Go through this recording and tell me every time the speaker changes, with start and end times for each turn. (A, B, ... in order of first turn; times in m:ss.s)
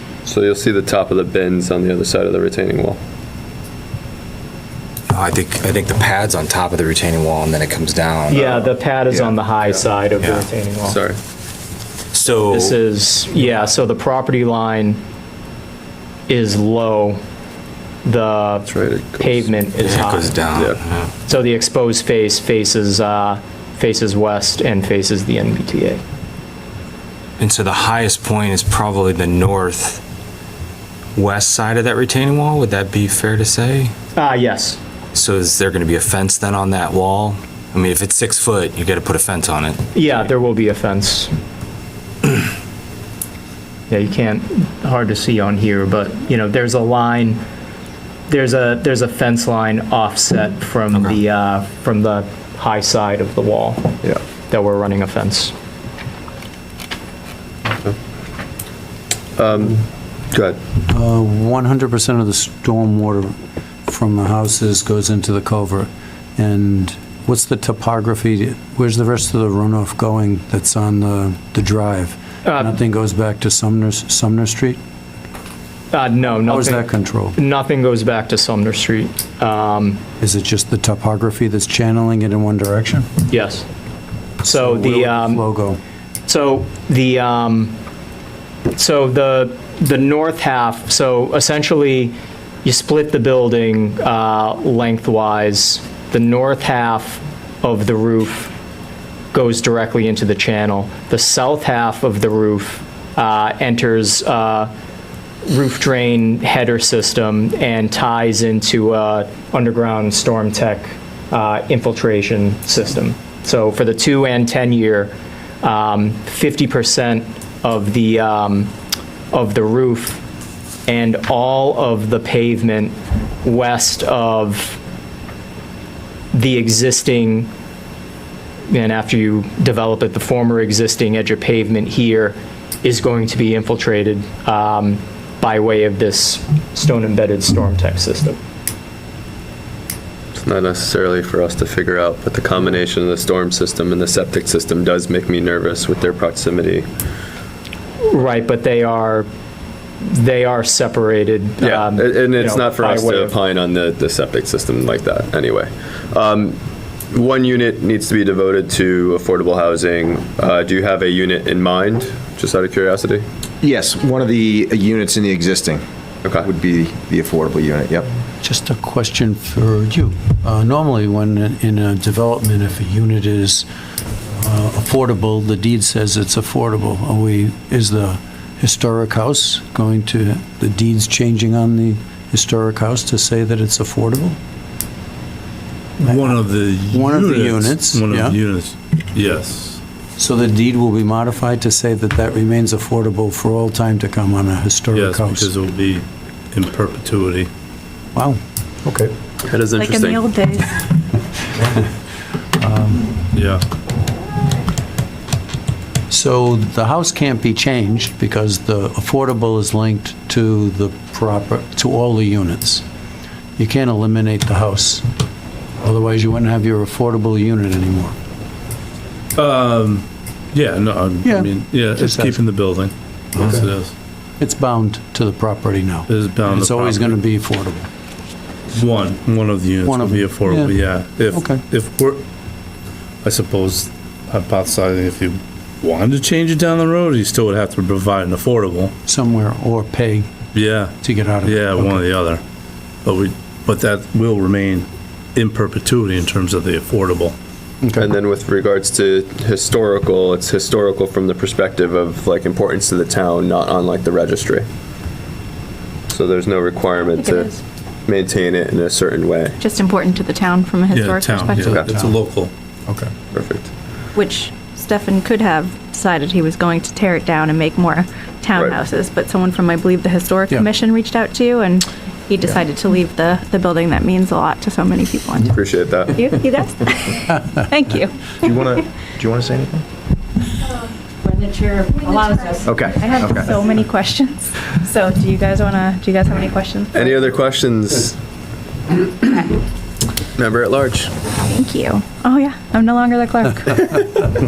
0:00.2-0:03.0 A
0:05.1-0:08.7 B
0:08.3-0:11.0 C
0:10.2-0:10.4 B
0:10.8-0:11.2 A
0:12.1-0:12.8 B
0:12.3-0:15.0 C
0:16.3-0:17.2 C
0:18.0-0:20.4 C
0:18.7-0:19.5 A
0:19.8-0:21.1 B
0:20.5-0:20.8 A
0:21.3-0:26.0 C
0:27.4-0:30.0 B
0:31.2-0:33.9 B
0:34.2-0:34.8 C
0:35.1-0:39.8 B
0:39.9-0:41.3 C
0:43.9-0:47.4 C
0:48.3-0:54.0 C
0:50.9-0:51.2 B
0:54.5-0:55.5 C
0:57.7-0:57.9 A
0:59.4-1:00.6 A
1:00.9-1:03.3 D
1:03.8-1:14.8 D
1:12.4-1:12.7 C
1:15.9-1:20.0 C
1:16.2-1:17.4 D
1:20.2-1:23.1 D
1:23.3-1:23.6 C
1:24.4-1:25.8 D
1:24.4-1:25.4 C
1:26.3-1:27.8 C
1:28.7-1:32.1 C
1:32.6-1:38.5 C
1:39.3-1:44.7 C
1:45.4-1:58.7 C
1:59.3-2:00.2 C
2:00.8-2:04.8 C
2:06.3-2:07.5 C
2:08.7-2:18.4 C
2:20.4-2:26.8 A
2:28.1-2:29.3 C
2:30.0-2:33.4 C
2:31.6-2:36.6 A
2:37.1-2:43.2 A
2:43.6-2:45.8 E
2:46.4-2:48.1 E
2:48.4-2:53.6 D
2:54.4-3:04.4 D
3:06.0-3:09.8 F
3:06.0-3:08.4 D
3:10.2-3:15.5 D
3:14.9-3:17.5 F
3:19.4-3:20.2 A
3:19.8-3:20.9 G
3:22.6-3:23.2 D
3:23.3-3:23.6 F
3:26.1-3:32.8 D
3:33.6-3:35.0 D
3:35.8-3:38.1 D
3:39.4-3:43.9 F
3:41.2-3:42.6 D
3:43.3-3:43.7 D
3:44.4-3:47.9 D
3:46.1-3:47.1 F
3:48.7-3:52.2 F
3:49.8-3:51.6 D
3:53.2-3:58.9 F
3:59.0-4:00.3 D
4:00.5-4:02.4 F
4:01.0-4:02.1 D
4:03.0-4:07.3 F
4:07.8-4:08.1 D
4:08.0-4:14.6 A
4:16.1-4:17.5 A
4:17.2-4:17.6 G
4:18.0-4:19.6 A
4:19.6-4:21.8 G
4:20.9-4:22.5 F
4:21.6-4:22.2 D
4:21.6-4:21.9 A
4:22.9-4:23.1 D
4:23.3-4:23.7 A
4:24.1-4:35.5 G
4:28.5-4:28.8 A
4:35.4-4:36.4 A
4:36.1-4:38.5 G
4:38.4-4:39.8 E
4:41.2-4:47.1 G
4:42.6-4:43.6 E
4:46.9-4:48.2 A
4:50.4-4:51.1 A
4:51.5-4:54.2 G